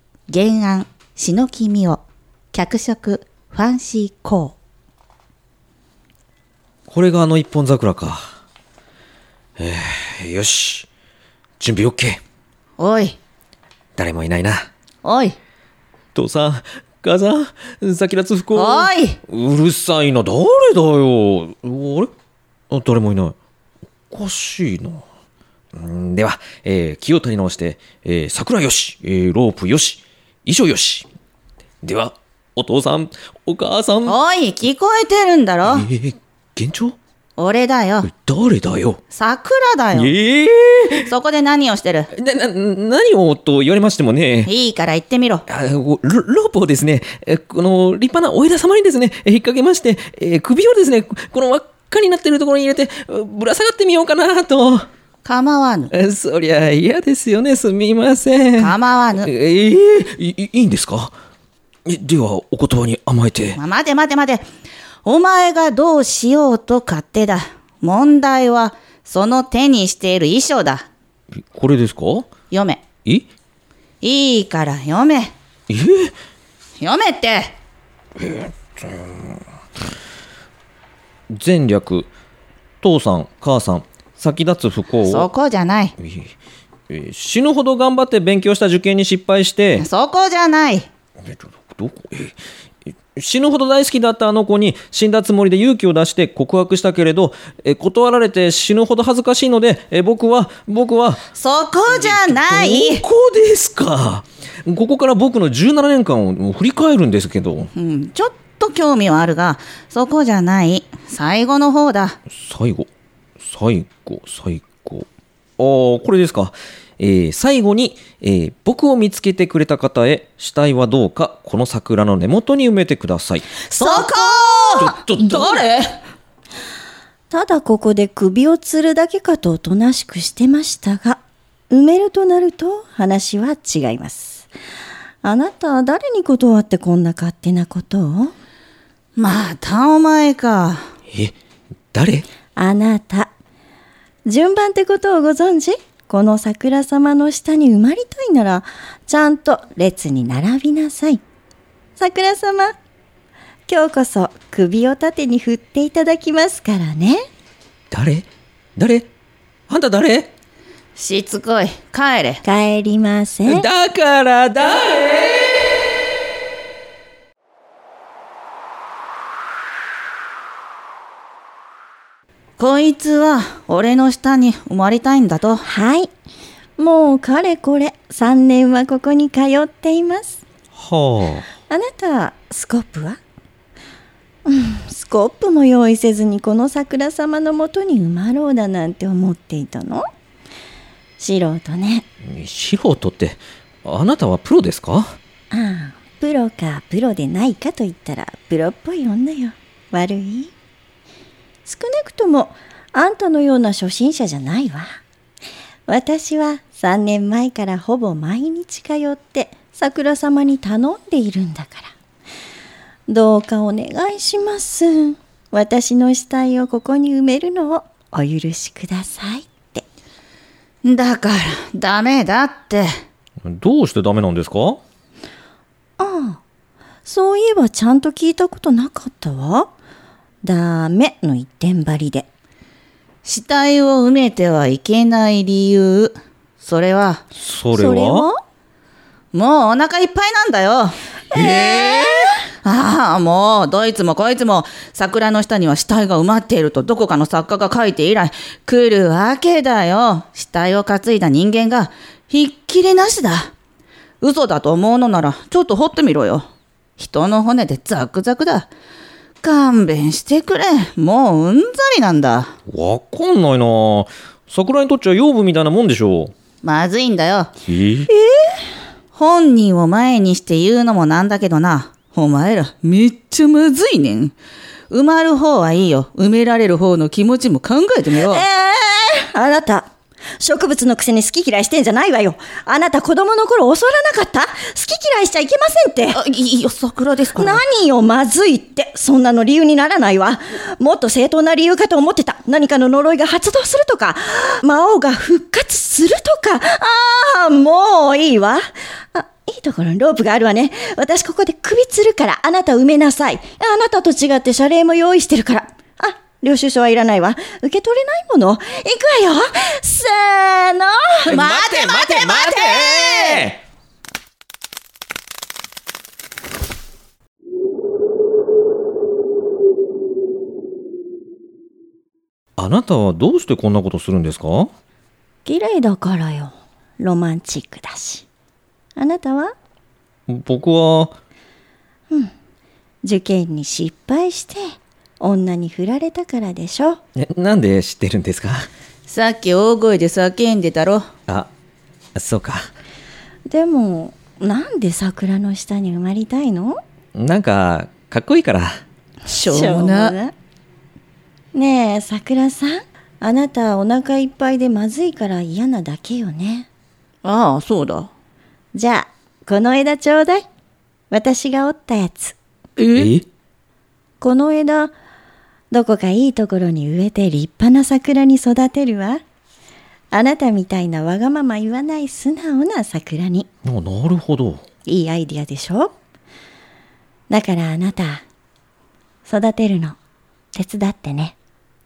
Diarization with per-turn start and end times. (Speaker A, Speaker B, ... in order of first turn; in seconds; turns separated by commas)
Speaker A: 0.3-4.6, Speaker B: 6.9-8.3, Speaker B: 9.6-10.9, Speaker B: 11.6-12.2, Speaker A: 12.8-13.2, Speaker B: 14.0-14.7, Speaker A: 15.0-15.3, Speaker B: 16.1-22.1, Speaker A: 18.5-19.2, Speaker B: 22.7-23.3, Speaker B: 24.1-25.0, Speaker B: 25.7-31.1, Speaker B: 31.8-34.1, Speaker A: 34.0-35.9, Speaker B: 35.7-37.0, Speaker A: 37.4-38.1, Speaker B: 38.0-39.0, Speaker A: 39.1-40.1, Speaker B: 39.9-41.1, Speaker A: 41.0-42.1, Speaker B: 42.1-44.5, Speaker A: 44.5-45.4, Speaker B: 45.5-54.9, Speaker A: 55.2-55.9, Speaker B: 55.9-61.1, Speaker A: 58.6-59.3, Speaker B: 61.9-63.6, Speaker A: 63.5-64.5, Speaker A: 65.0-70.9, Speaker B: 71.5-72.3, Speaker A: 72.5-72.8, Speaker A: 74.0-75.3, Speaker B: 75.7-76.1, Speaker A: 76.8-77.5, Speaker B: 78.2-79.4, Speaker B: 81.3-82.1, Speaker B: 82.8-85.3, Speaker A: 85.0-85.9, Speaker B: 86.0-86.3, Speaker B: 86.9-89.8, Speaker A: 89.8-90.9, Speaker B: 91.2-92.3, Speaker B: 93.2-101.2, Speaker A: 101.3-103.0, Speaker B: 101.9-107.7, Speaker A: 107.7-112.2, Speaker B: 112.3-112.9, Speaker B: 113.4-115.1, Speaker B: 115.6-124.0, Speaker A: 123.6-126.0, Speaker B: 124.7-125.6, Speaker C: 127.3-134.5, Speaker C: 135.2-138.3, Speaker A: 139.2-140.8, Speaker B: 141.9-142.2, Speaker C: 142.6-143.3, Speaker C: 144.2-151.2, Speaker C: 152.0-152.7, Speaker C: 153.7-157.2, Speaker B: 157.9-159.1, Speaker B: 159.7-160.3, Speaker A: 160.9-162.4, Speaker C: 162.4-163.7, Speaker B: 163.4-165.4, Speaker A: 172.6-175.6, Speaker C: 175.6-176.1, Speaker C: 176.8-180.4, Speaker B: 180.7-181.5, Speaker C: 181.7-183.2, Speaker C: 184.4-190.0, Speaker C: 191.2-192.0, Speaker B: 192.2-195.2, Speaker C: 195.5-200.5, Speaker C: 201.7-205.0, Speaker C: 205.9-211.9, Speaker C: 213.1-219.8, Speaker A: 220.8-222.9, Speaker B: 223.4-224.8, Speaker C: 226.0-226.4, Speaker C: 227.1-229.7, Speaker C: 230.4-232.3, Speaker A: 233.2-237.2, Speaker B: 237.4-238.3, Speaker C: 237.7-238.4, Speaker A: 239.3-240.9, Speaker C: 241.3-242.3, Speaker B: 241.4-242.2, Speaker A: 242.6-253.5, Speaker A: 254.2-256.4, Speaker A: 257.0-258.7, Speaker A: 259.4-262.5, Speaker B: 262.7-266.3, Speaker A: 266.6-267.5, Speaker B: 267.6-268.1, Speaker A: 269.1-274.3, Speaker A: 274.9-278.4, Speaker C: 278.3-286.2, Speaker A: 286.1-287.6, Speaker C: 287.4-311.4, Speaker A: 311.2-312.7, Speaker B: 311.2-313.6, Speaker C: 312.2-313.1, Speaker B: 322.6-324.7, Speaker C: 325.4-328.2, Speaker C: 328.9-329.5, Speaker B: 330.3-331.2, Speaker C: 333.0-337.0, Speaker B: 337.1-338.7, Speaker A: 339.1-341.0, Speaker B: 342.1-342.6, Speaker C: 343.4-346.8, Speaker B: 347.1-348.7, Speaker C: 349.3-350.3, Speaker A: 349.3-350.2, Speaker C: 351.5-356.7, Speaker A: 357.2-358.1, Speaker C: 358.7-360.4, Speaker C: 361.1-362.4, Speaker A: 362.8-363.1, Speaker B: 362.9-363.2, Speaker C: 364.2-364.9, Speaker C: 365.7-369.2, Speaker C: 370.1-373.5, Speaker B: 373.6-374.6, Speaker C: 374.9-375.9, Speaker C: 377.3-378.2, Speaker C: 379.2-379.9, Speaker C: 380.5-381.3